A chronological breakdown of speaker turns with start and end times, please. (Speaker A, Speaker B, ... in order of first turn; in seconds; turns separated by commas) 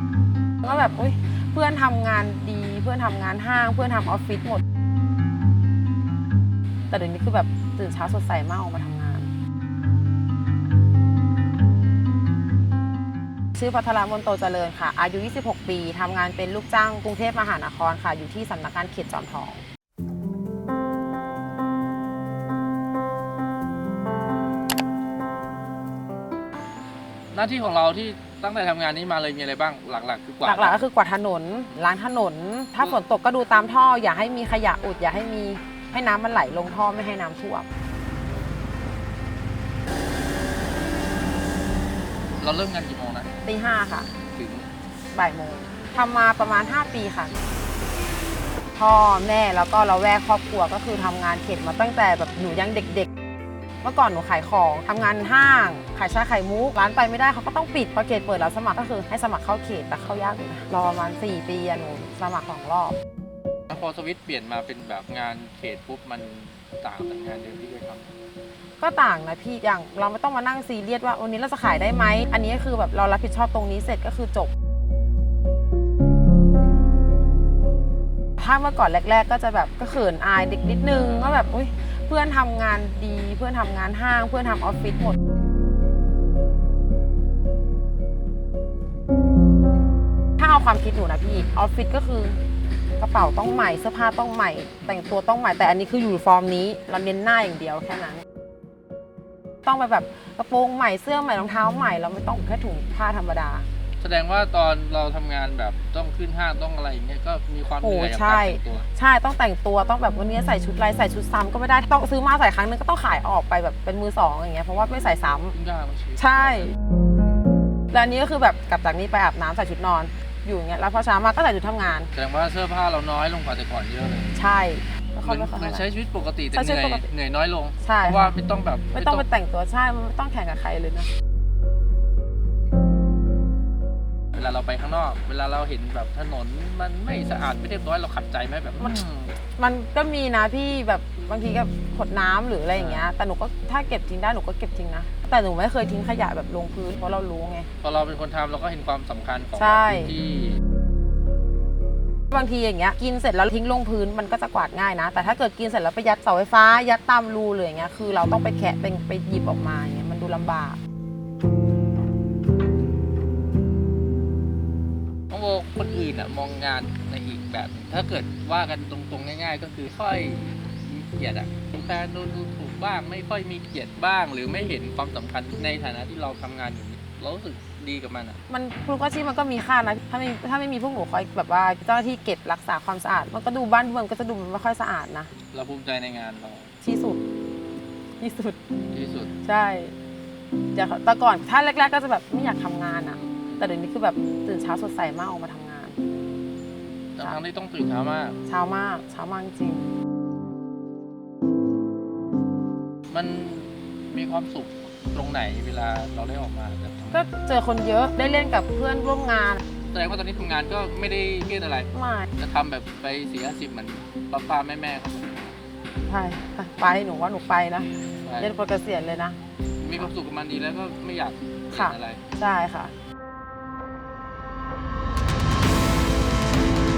Speaker A: 0.6-4.6, Speaker A: 6.9-9.3, Speaker A: 13.5-19.6, Speaker B: 27.3-30.8, Speaker A: 30.4-37.7, Speaker B: 42.4-43.4, Speaker A: 43.4-44.1, Speaker B: 44.3-44.7, Speaker A: 45.1-47.3, Speaker A: 48.7-53.1, Speaker A: 53.8-63.0, Speaker B: 63.7-68.1, Speaker A: 68.8-74.5, Speaker A: 78.4-85.2, Speaker B: 80.9-81.5, Speaker A: 90.4-92.4, Speaker A: 93.0-98.2, Speaker A: 99.7-103.7, Speaker B: 104.0-108.9, Speaker A: 107.8-115.5, Speaker B: 115.5-116.8, Speaker A: 116.2-116.7, Speaker A: 117.9-122.1, Speaker B: 122.1-124.3, Speaker A: 124.3-125.8, Speaker B: 125.2-129.2, Speaker A: 126.5-127.1, Speaker A: 127.8-128.3, Speaker A: 128.9-131.1, Speaker B: 134.3-139.3, Speaker A: 138.8-139.0, Speaker A: 139.6-147.7, Speaker B: 142.7-143.1, Speaker B: 147.8-150.6, Speaker A: 149.5-150.1, Speaker A: 152.3-160.8, Speaker B: 165.3-178.4, Speaker A: 178.5-185.3, Speaker B: 185.5-186.7, Speaker A: 186.8-187.2, Speaker A: 188.2-188.6, Speaker B: 188.9-189.3, Speaker A: 189.4-189.9, Speaker A: 190.7-196.0, Speaker B: 197.2-198.4, Speaker A: 198.4-199.8, Speaker B: 203.1-207.3, Speaker A: 207.1-209.6, Speaker B: 209.9-215.3, Speaker A: 211.9-212.3, Speaker A: 216.1-219.4, Speaker B: 218.2-218.5, Speaker B: 219.8-222.2, Speaker A: 221.7-222.9